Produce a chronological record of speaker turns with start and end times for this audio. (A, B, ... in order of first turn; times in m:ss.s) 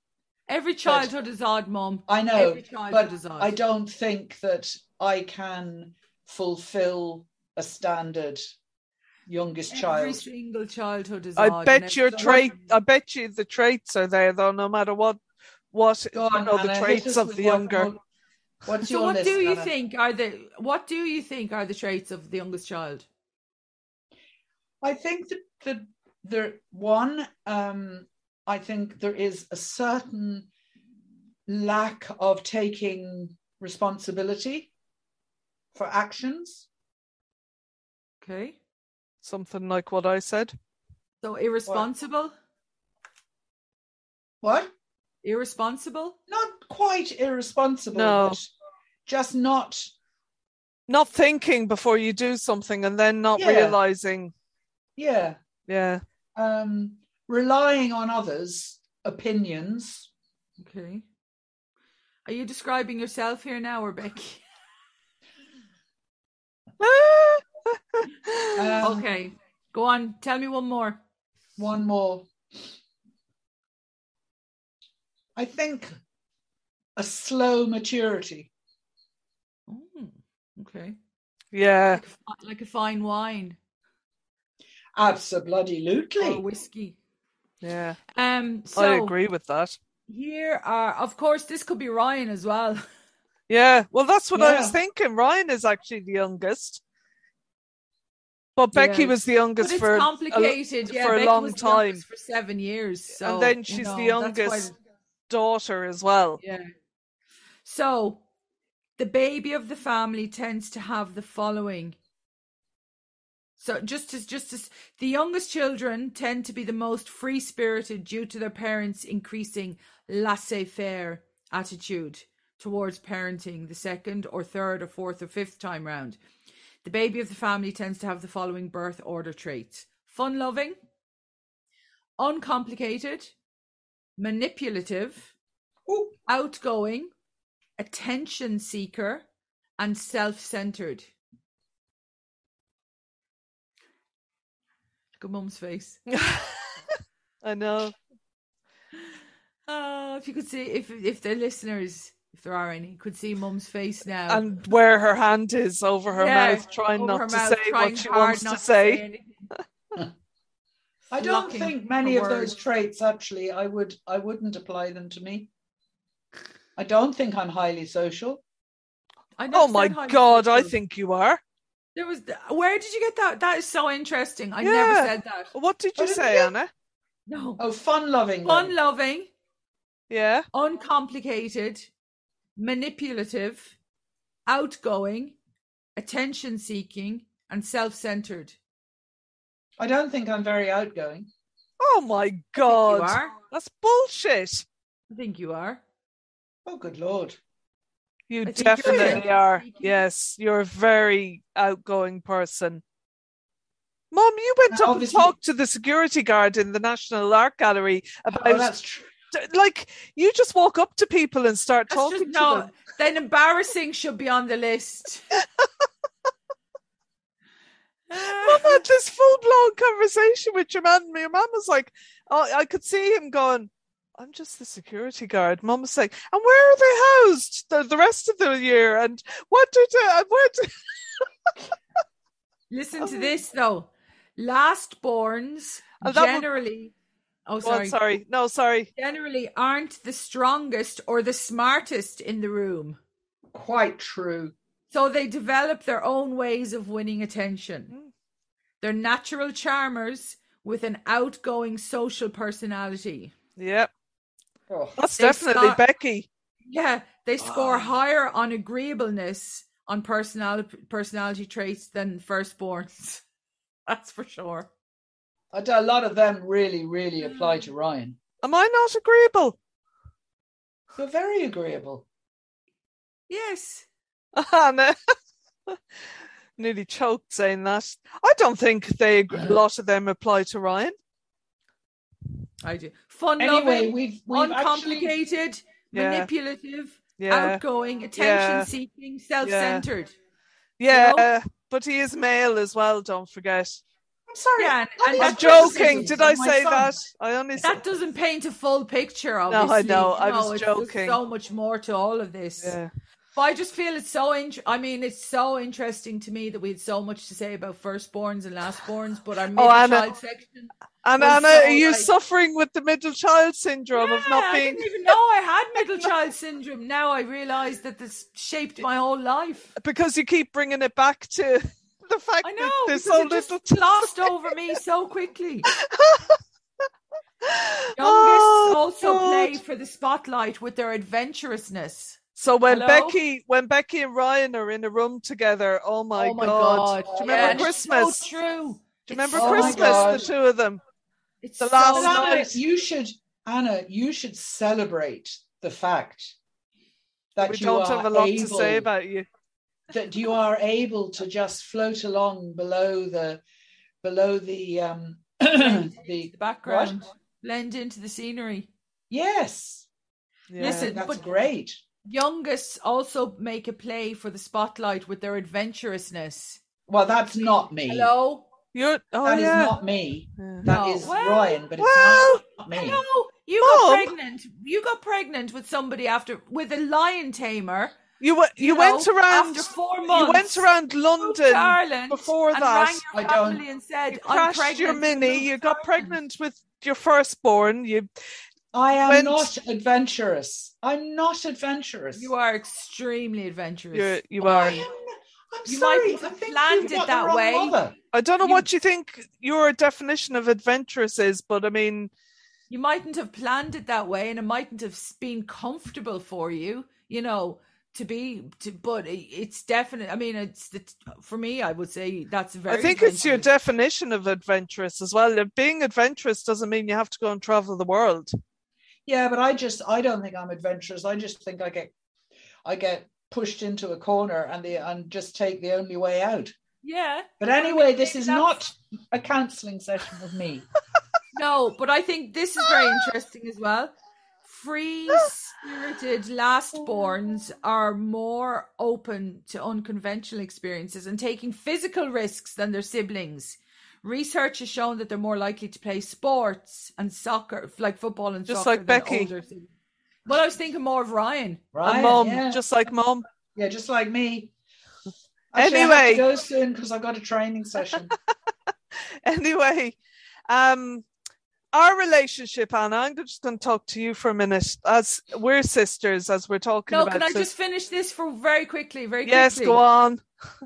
0:00.5-0:03.6 A
0:00.8-0:01.1 B
0:02.1-0:08.4 B
0:09.3-0:10.3 B
0:09.7-0:12.6 A
0:11.4-0:15.2 C
0:12.1-0:12.5 B
0:15.7-0:17.9 C
0:16.1-0:18.0 B
0:18.6-0:19.7 B
0:18.9-0:23.0 A
0:24.8-0:30.5 B
0:31.5-0:34.7 B
0:35.7-0:36.7 B
0:38.2-0:38.6 A
0:39.2-0:40.5 C
0:41.2-0:42.3 A
0:44.4-0:44.7 B
0:45.2-0:46.2 A
0:46.3-0:48.5 B
0:47.9-0:48.4 C
0:49.0-0:49.9 B
0:50.9-0:54.3 C
0:53.4-0:53.8 B
0:55.0-0:55.4 B
0:55.7-0:56.0 C
0:56.4-1:00.1 B
1:00.6-1:01.0 A
1:02.3-1:04.4 A
1:06.8-1:08.8 C
1:08.5-1:09.0 B
1:08.8-1:11.0 A
1:11.6-1:12.3 B
1:15.4-1:16.0 B
1:17.0-1:18.5 B
1:19.7-1:21.0 A
1:21.5-1:22.0 C
1:21.9-1:23.6 A
1:25.0-1:26.4 B
1:26.2-1:27.0 A
1:27.6-1:28.0 C
1:28.1-1:29.1 A
1:28.7-1:29.8 C
1:30.1-1:32.8 A
1:33.5-1:36.8 C
1:34.3-1:34.8 B
1:38.6-1:42.0 C
1:38.7-1:44.7 A
1:43.2-1:44.7 C
1:45.3-1:46.4 C
1:46.4-1:46.7 A
1:47.6-1:48.2 A
1:49.0-1:52.0 A
1:53.6-2:06.2 A
2:06.8-2:10.8 A
2:12.2-2:13.3 A
2:14.2-2:15.3 A
2:15.9-2:16.1 B
2:16.3-2:17.1 A
2:17.8-2:19.2 A
2:19.8-2:21.1 A
2:25.2-2:26.0 A
2:26.1-2:26.9 C
2:27.4-2:28.0 C
2:29.7-2:34.6 A
2:34.3-2:39.0 C
2:36.1-2:39.5 A
2:41.1-2:45.5 B
2:41.2-2:42.6 A
2:46.8-2:48.4 B
2:49.4-2:50.8 A
2:49.5-2:51.4 C
2:52.0-2:55.5 A
2:54.6-2:56.7 C
2:56.0-2:56.5 B
2:57.3-2:57.6 A
2:57.6-2:58.7 B
2:58.4-2:59.3 A
3:00.1-3:00.4 C
3:00.5-3:01.9 A
3:02.6-3:03.7 A
3:04.5-3:05.4 A
3:06.0-3:08.6 A
3:09.8-3:11.3 B
3:11.8-3:14.7 C
3:12.6-3:13.3 A
3:15.1-3:15.8 A
3:16.7-3:17.4 B
3:18.3-3:22.8 C
3:18.4-3:20.0 A
3:18.8-3:19.2 B
3:24.1-3:28.7 C
3:24.7-3:25.3 B
3:28.3-3:29.1 B
3:29.3-3:32.7 C
3:31.9-3:35.3 A
3:38.1-3:38.8 A
3:38.2-3:51.3 C
3:52.7-3:56.9 A
3:53.0-3:53.3 C
3:56.0-3:56.4 C
3:57.4-3:58.0 A
3:57.6-3:58.9 C
3:59.0-4:03.0 A
4:03.5-4:04.6 B
4:04.9-4:07.9 A
4:08.8-4:13.3 A
4:13.6-4:13.9 C
4:14.7-4:15.0 B
4:15.0-4:16.3 C
4:15.2-4:15.8 A
4:16.7-4:23.2 A
4:23.9-4:24.7 A
4:25.5-4:28.2 B
4:27.2-4:27.6 A
4:28.4-4:29.6 C
4:31.0-4:32.0 B
4:33.3-4:33.8 A
4:34.4-4:35.0 C
4:36.6-4:41.0 C
4:42.6-4:50.1 A
4:43.4-4:45.1 B
4:45.9-4:46.3 C
4:47.2-4:47.6 C
4:48.2-4:48.7 C
4:49.4-4:49.9 C
4:50.8-4:53.8 C
4:50.9-4:51.3 A
4:54.3-4:57.0 B
4:54.6-4:56.2 A
4:55.2-4:57.8 C
4:57.6-5:02.8 A
4:59.5-5:01.2 C
5:02.6-5:02.9 C
5:03.4-5:12.1 A
5:09.6-5:10.0 C
5:11.0-5:15.1 C
5:13.9-5:19.7 A
5:19.8-5:24.5 C
5:22.4-5:25.7 A
5:25.7-5:26.4 C
5:27.4-5:29.6 C
5:28.0-5:33.2 A
5:32.4-5:38.2 C
5:36.2-5:40.2 A
5:37.1-5:37.7 B
5:39.1-5:40.8 C
5:39.3-5:40.3 B
5:41.4-5:42.4 A
5:41.6-5:42.6 C
5:41.9-5:46.4 B
5:47.4-5:48.9 B
5:47.4-5:49.3 C
5:49.9-5:53.4 B
5:54.0-5:57.0 B
5:55.6-5:58.7 A
5:59.1-5:59.9 B
6:00.5-6:01.0 C
6:00.6-6:01.4 A
6:00.6-6:01.8 B
6:02.0-6:06.6 A
6:06.9-6:08.1 B
6:07.9-6:08.5 A
6:08.7-6:09.8 C
6:09.2-6:13.0 B
6:10.4-6:10.6 C
6:10.6-6:11.6 A
6:11.8-6:12.4 C
6:12.7-6:18.0 A
6:13.6-6:14.1 C
6:18.2-6:23.0 C
6:18.6-6:26.2 A
6:23.1-6:23.6 B
6:24.1-6:28.1 C
6:28.7-6:32.3 B
6:29.1-6:29.5 C
6:32.1-6:34.9 A
6:33.9-6:34.8 C
6:34.6-6:38.0 B
6:35.7-6:37.8 A
6:38.1-6:42.1 C
6:42.7-6:53.5 A
6:52.7-6:58.3 C
6:59.0-7:01.9 B
7:02.6-7:06.5 B
7:06.8-7:08.6 A
7:07.4-7:10.7 B
7:11.3-7:13.9 A
7:14.4-7:29.7 A
7:28.5-7:29.3 C
7:30.3-7:31.7 A
7:31.7-7:32.6 B
7:31.8-7:33.2 C
7:33.6-7:34.5 B
7:35.5-7:38.1 B
7:35.6-7:36.2 C
7:39.2-7:40.0 C
7:40.5-7:41.0 C
7:41.7-7:47.5 C
7:46.9-7:49.8 A
7:49.2-7:50.2 C